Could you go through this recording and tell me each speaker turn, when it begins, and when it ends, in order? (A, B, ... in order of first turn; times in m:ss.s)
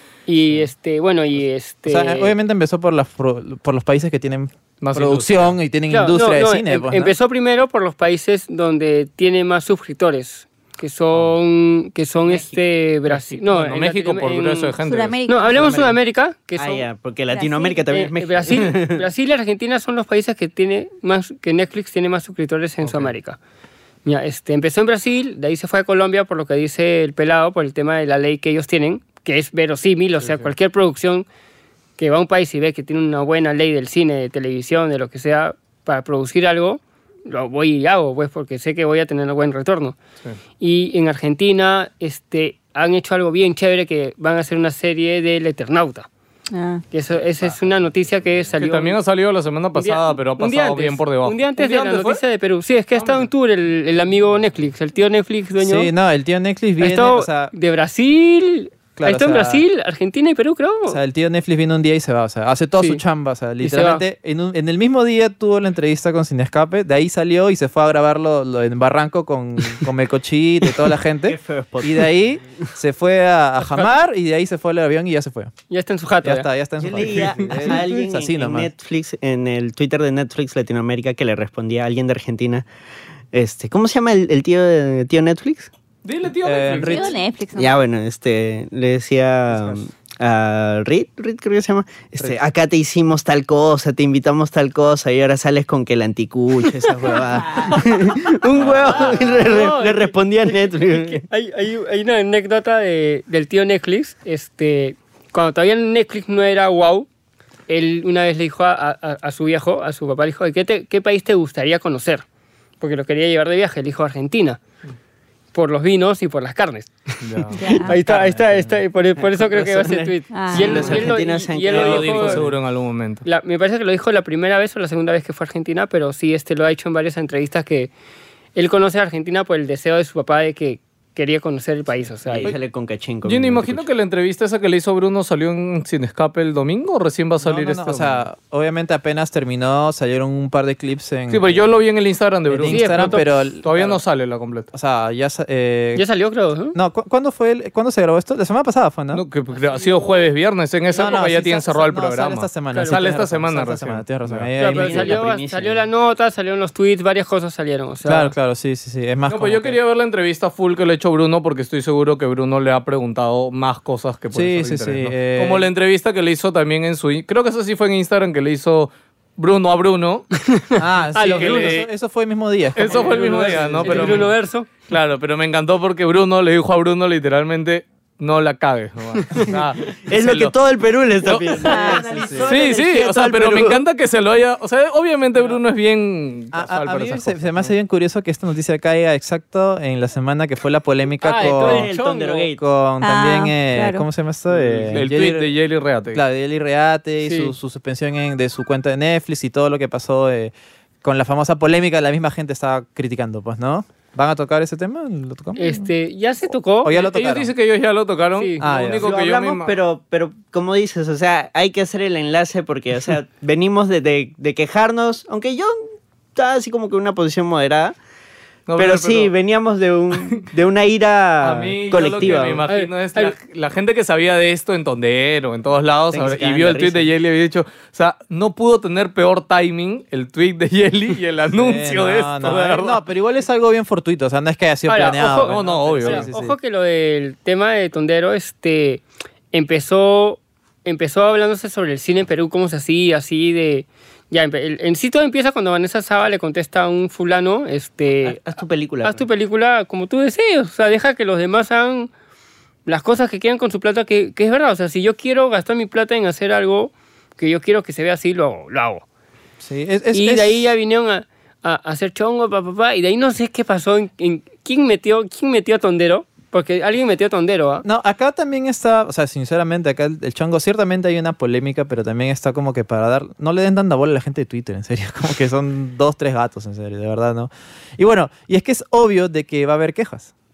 0:00.3-0:02.4 A
0:01.9-0:07.1 B
0:04.8-0:05.6 C
0:05.9-0:14.7 A
0:12.2-0:12.6 D
0:13.1-0:15.2 C
0:14.8-0:15.9 E
0:15.3-0:16.9 A
0:16.6-0:19.0 D
0:17.3-0:17.9 E
0:17.9-0:23.4 A
0:22.8-0:23.1 C
0:24.0-0:31.2 A
0:30.2-0:30.5 C
0:32.0-0:40.0 A
0:40.6-0:46.1 A
0:46.5-0:46.8 E
0:46.9-0:49.0 A
0:48.6-0:52.2 C
0:49.8-0:55.9 A
0:53.0-0:53.3 C
0:55.6-0:57.5 B
0:56.8-1:01.0 A
0:59.0-0:59.6 B
1:00.9-1:15.5 B
1:03.6-1:04.0 A
1:11.2-1:12.2 D
1:13.6-1:13.9 A
1:15.7-1:16.5 A
1:16.2-1:18.7 B
1:16.8-1:22.6 D
1:23.3-1:25.7 D
1:26.0-1:27.2 C
1:26.4-1:27.1 B
1:26.8-1:27.8 E
1:27.6-1:41.2 D
1:37.4-1:37.8 E
1:38.9-1:40.2 A
1:40.9-1:47.1 A
1:47.7-1:52.2 A
1:52.8-1:54.6 A
1:55.5-2:02.4 A
1:57.2-1:57.6 C
1:57.6-1:57.9 E
1:58.0-1:58.8 B
1:59.2-2:02.5 D
2:00.3-2:01.1 E
2:01.7-2:03.2 C
2:03.2-2:07.9 A
2:08.6-2:12.5 A
2:12.2-2:13.9 D
2:13.2-2:18.2 C
2:17.4-2:21.8 B
2:21.3-2:24.7 C
2:22.5-2:24.0 B
2:22.7-2:23.3 A
2:24.7-2:26.0 B
2:25.9-2:26.8 A
2:26.7-2:29.2 B
2:29.1-2:34.5 C
2:29.5-2:30.3 A
2:30.9-2:35.2 B
2:32.7-2:33.0 A
2:34.6-2:38.3 A
2:34.6-2:35.8 D
2:38.0-2:39.8 B
2:39.3-2:50.3 C
2:44.3-2:45.7 B
2:50.5-2:51.8 A
2:50.8-2:54.3 B
2:51.3-2:51.9 C
2:52.8-2:54.3 C
2:52.9-2:54.7 A
2:54.8-3:00.5 C
3:00.1-3:03.8 D
3:01.2-3:07.6 C
3:01.6-3:02.0 A
3:02.0-3:02.5 B
3:06.5-3:11.9 B
3:11.2-3:12.5 A
3:11.4-3:12.6 D
3:12.6-3:15.5 B
3:13.0-3:14.1 E
3:14.8-3:16.2 C
3:16.1-3:25.9 B
3:17.2-3:17.5 A
3:25.6-3:27.0 A
3:26.8-3:27.5 B
3:26.9-3:29.7 C
3:28.4-3:28.6 A
3:28.6-3:29.1 B
3:29.0-3:35.8 D
3:36.4-3:38.0 D
3:38.7-3:39.3 C
3:38.8-3:42.6 D
3:41.4-3:53.0 C
3:42.7-3:43.3 A
3:46.1-3:47.1 D
3:51.6-3:56.6 B
3:54.9-4:08.4 A
3:55.4-3:56.2 C
4:08.2-4:09.3 D
4:09.0-4:12.1 A
4:12.9-4:19.0 A
4:19.6-4:20.7 B
4:20.1-4:27.8 A
4:27.8-4:40.3 B